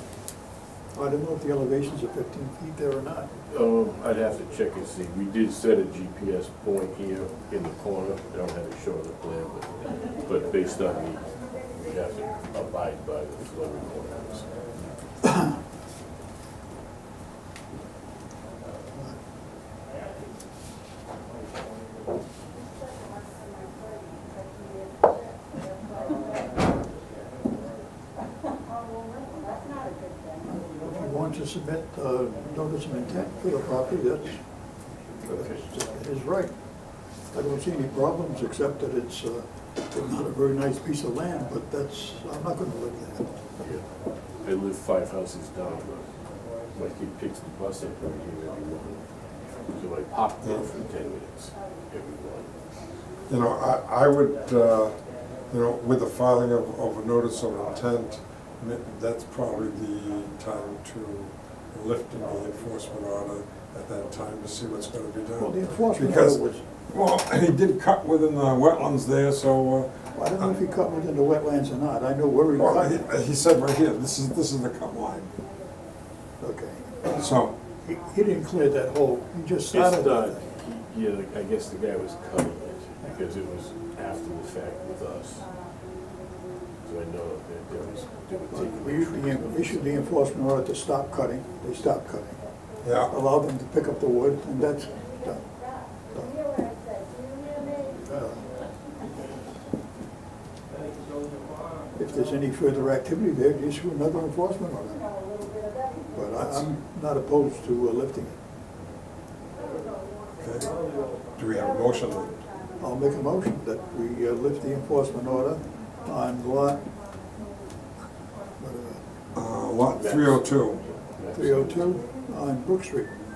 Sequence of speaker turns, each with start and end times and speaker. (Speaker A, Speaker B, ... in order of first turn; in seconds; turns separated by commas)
Speaker A: 0.9-3.3, Speaker B: 3.5-9.7, Speaker B: 10.2-14.9, Speaker A: 30.4-34.4, Speaker B: 35.2-35.6, Speaker A: 35.4-36.5, Speaker A: 37.3-43.3, Speaker B: 43.6-43.8, Speaker B: 44.4-46.1, Speaker B: 46.7-49.0, Speaker B: 49.7-52.5, Speaker C: 53.3-54.9, Speaker C: 55.5-70.5, Speaker A: 65.4-66.6, Speaker A: 70.2-73.0, Speaker C: 72.6-75.3, Speaker A: 76.4-77.2, Speaker C: 77.1-77.5, Speaker A: 77.8-80.4, Speaker B: 79.7-85.5, Speaker B: 86.8-89.9, Speaker A: 88.5-92.3, Speaker C: 92.8-93.1, Speaker A: 93.1-95.4, Speaker A: 98.0-98.4, Speaker A: 102.0-105.0, Speaker A: 106.1-108.4, Speaker C: 106.4-106.6, Speaker C: 110.4-110.7, Speaker C: 111.4-112.3, Speaker A: 112.8-116.8, Speaker A: 118.6-119.0, Speaker C: 119.3-120.8, Speaker B: 119.9-122.0, Speaker A: 121.3-123.1